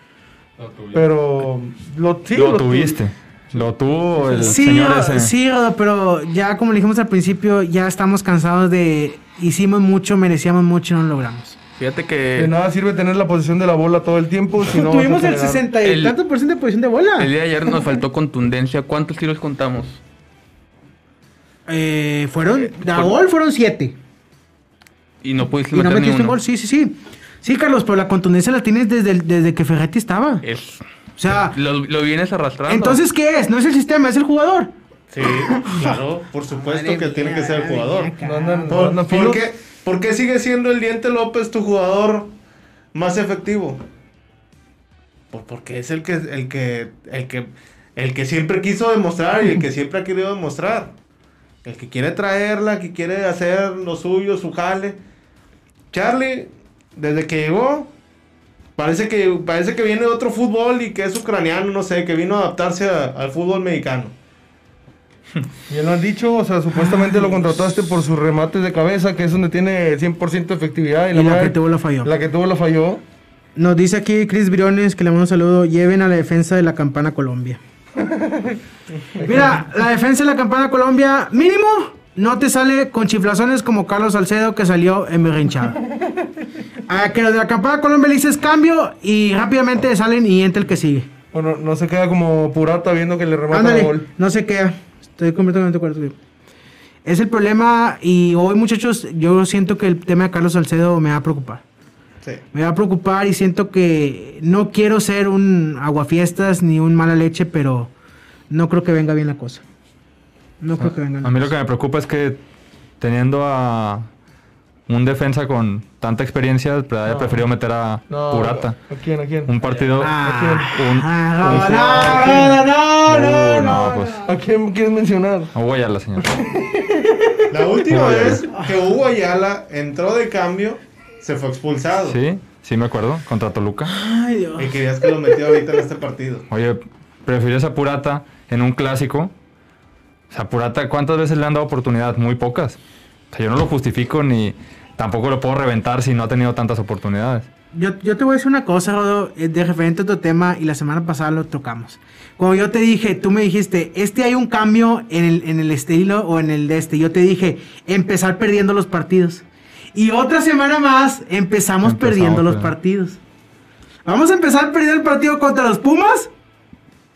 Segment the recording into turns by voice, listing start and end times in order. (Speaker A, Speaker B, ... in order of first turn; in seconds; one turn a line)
Speaker A: 0.6-1.0
Speaker B: 0.9-3.0
Speaker A: 2.3-5.3
Speaker C: 4.4-11.6
Speaker D: 11.8-12.5
Speaker B: 12.4-15.7
Speaker C: 14.7-17.3
Speaker D: 15.8-16.2
Speaker D: 17.2-20.0
Speaker C: 21.7-24.0
Speaker D: 22.8-23.1
Speaker D: 25.2-26.4
Speaker C: 25.7-30.4
Speaker D: 30.4-30.8
Speaker C: 31.2-31.6
Speaker D: 31.5-33.0
Speaker C: 32.7-34.7
Speaker E: 35.1-38.1
Speaker C: 35.5-36.0
Speaker C: 36.5-38.9
Speaker B: 38.2-39.5
Speaker E: 38.7-42.3
Speaker E: 42.9-43.9
Speaker E: 45.3-50.9
Speaker E: 51.6-55.0
Speaker E: 55.9-57.9
Speaker E: 58.8-64.1
Speaker B: 65.7-73.0
Speaker C: 66.8-67.4
Speaker C: 71.1-72.1
Speaker C: 73.6-77.6
Speaker B: 78.0-78.6
Speaker B: 79.1-79.6
Speaker C: 79.2-85.8
Speaker B: 86.0-86.3
Speaker C: 86.9-91.1
Speaker B: 91.3-94.1
Speaker C: 93.5-96.2
Speaker C: 97.0-101.6
Speaker C: 102.5-107.9
Speaker C: 108.5-109.6
Speaker C: 110.6-111.5
Speaker A: 110.8-112.4
Speaker A: 113.0-114.1
Speaker A: 114.9-118.8
Speaker B: 117.0-117.5
Speaker B: 118.1-120.8
Speaker A: 119.5-122.4
Speaker C: 120.0-124.3
Speaker B: 121.4-122.6
Speaker E: 121.9-122.2
Speaker A: 123.1-124.2
Speaker B: 124.3-125.5
Speaker A: 125.5-126.3
Speaker B: 126.2-127.5
Speaker E: 127.5-132.2
Speaker A: 127.9-128.5
Speaker A: 132.1-133.9
Speaker C: 133.9-135.4
Speaker E: 134.6-136.5
Speaker A: 136.5-139.3
Speaker A: 140.3-142.8
Speaker A: 143.3-147.5
Speaker C: 147.7-163.2
Speaker A: 161.8-162.8
Speaker C: 164.1-166.3